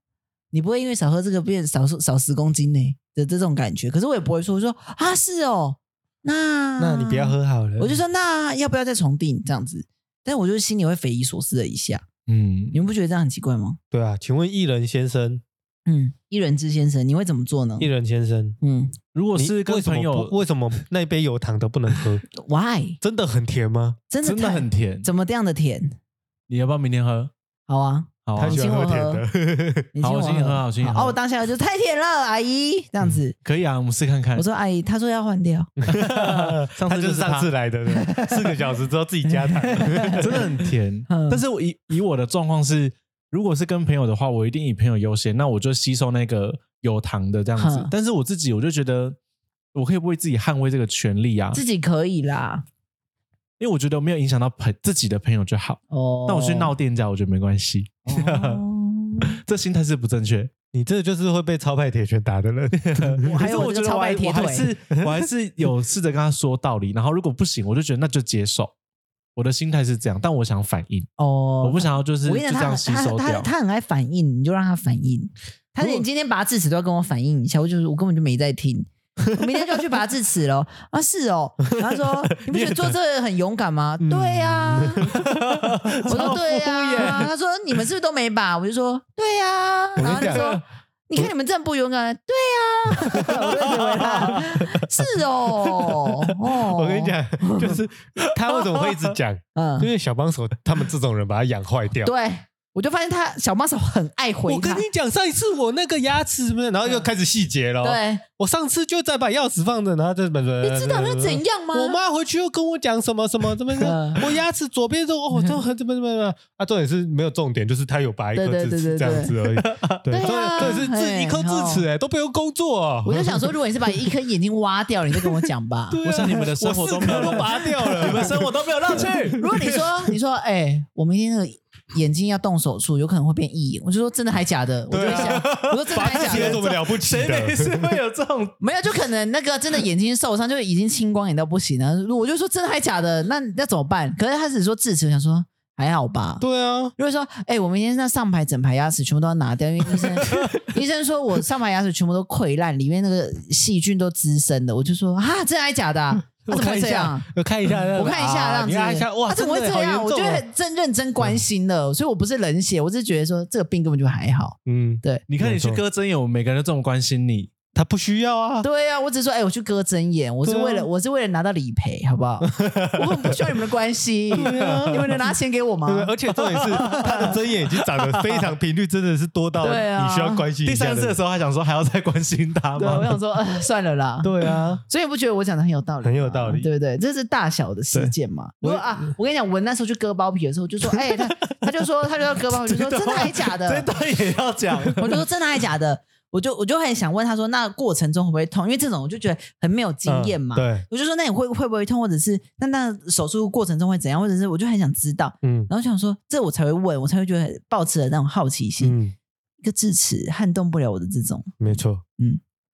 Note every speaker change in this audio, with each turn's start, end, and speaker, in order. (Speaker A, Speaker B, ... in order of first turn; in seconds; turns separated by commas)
Speaker A: 0.5-12.0, Speaker B: 6.8-8.0, Speaker C: 12.3-12.8, Speaker A: 12.7-13.8, Speaker B: 13.9-15.4, Speaker A: 15.8-17.9, Speaker B: 17.8-18.6, Speaker A: 18.6-19.0, Speaker C: 19.1-20.3, Speaker B: 19.3-22.2, Speaker A: 22.3-23.0, Speaker B: 23.0-24.0, Speaker A: 24.1-25.9, Speaker C: 24.2-25.1, Speaker C: 26.5-27.3, Speaker A: 27.7-29.2, Speaker C: 28.2-28.7, Speaker B: 28.4-29.9, Speaker A: 29.9-33.4, Speaker C: 30.0-31.2, Speaker C: 33.4-34.5, Speaker A: 34.4-35.7, Speaker B: 35.8-40.7, Speaker C: 35.9-37.5, Speaker A: 37.9-38.5, Speaker A: 39.3-40.3, Speaker C: 40.1-49.2, Speaker A: 41.1-41.4, Speaker A: 47.6-47.9, Speaker C: 49.7-51.6, Speaker A: 51.5-52.6, Speaker C: 53.6-58.6, Speaker A: 55.9-56.7, Speaker A: 58.1-59.3, Speaker C: 59.2-60.5, Speaker B: 60.7-63.3, Speaker C: 62.7-68.7, Speaker A: 63.2-64.7, Speaker B: 64.9-65.3, Speaker C: 69.3-71.1, Speaker A: 71.2-85.1, Speaker C: 71.6-73.5, Speaker B: 81.8-82.9, Speaker B: 84.0-87.3, Speaker C: 85.1-87.3, Speaker A: 86.0-97.8, Speaker B: 90.0-90.6, Speaker C: 90.0-90.5, Speaker B: 93.1-93.5, Speaker C: 93.7-94.3, Speaker B: 94.4-95.0, Speaker B: 96.6-102.1, Speaker C: 98.3-99.1, Speaker A: 99.5-99.9, Speaker A: 102.0-104.8, Speaker B: 104.5-123.5, Speaker A: 107.8-108.2, Speaker A: 110.6-112.0, Speaker A: 113.8-114.2, Speaker A: 118.3-119.3, Speaker C: 119.4-120.0, Speaker A: 120.1-121.8, Speaker A: 123.0-126.1, Speaker B: 125.9-129.7, Speaker C: 126.0-129.9, Speaker A: 127.0-127.4, Speaker A: 129.3-136.7, Speaker B: 134.9-138.0, Speaker C: 135.0-138.6, Speaker A: 138.6-146.4, Speaker B: 146.4-146.9, Speaker A: 147.0-157.3, Speaker B: 156.4-160.4, Speaker A: 157.9-165.2, Speaker B: 164.7-165.8, Speaker C: 165.3-167.5, Speaker B: 167.7-168.7, Speaker A: 168.6-176.1, Speaker B: 170.4-170.9, Speaker B: 172.4-173.4, Speaker B: 174.3-175.3, Speaker C: 174.4-175.2, Speaker B: 175.8-181.2, Speaker C: 176.3-178.5, Speaker A: 176.7-177.3, Speaker A: 179.6-180.4, Speaker C: 180.6-183.2, Speaker A: 182.8-184.3, Speaker B: 184.2-184.8, Speaker A: 184.8-193.9, Speaker B: 186.0-186.7, Speaker B: 187.9-189.1, Speaker C: 192.5-195.2, Speaker A: 194.9-209.0, Speaker B: 200.1-200.8, Speaker B: 205.4-205.7, Speaker B: 208.8-209.1, Speaker A: 209.6-212.4, Speaker B: 211.6-212.0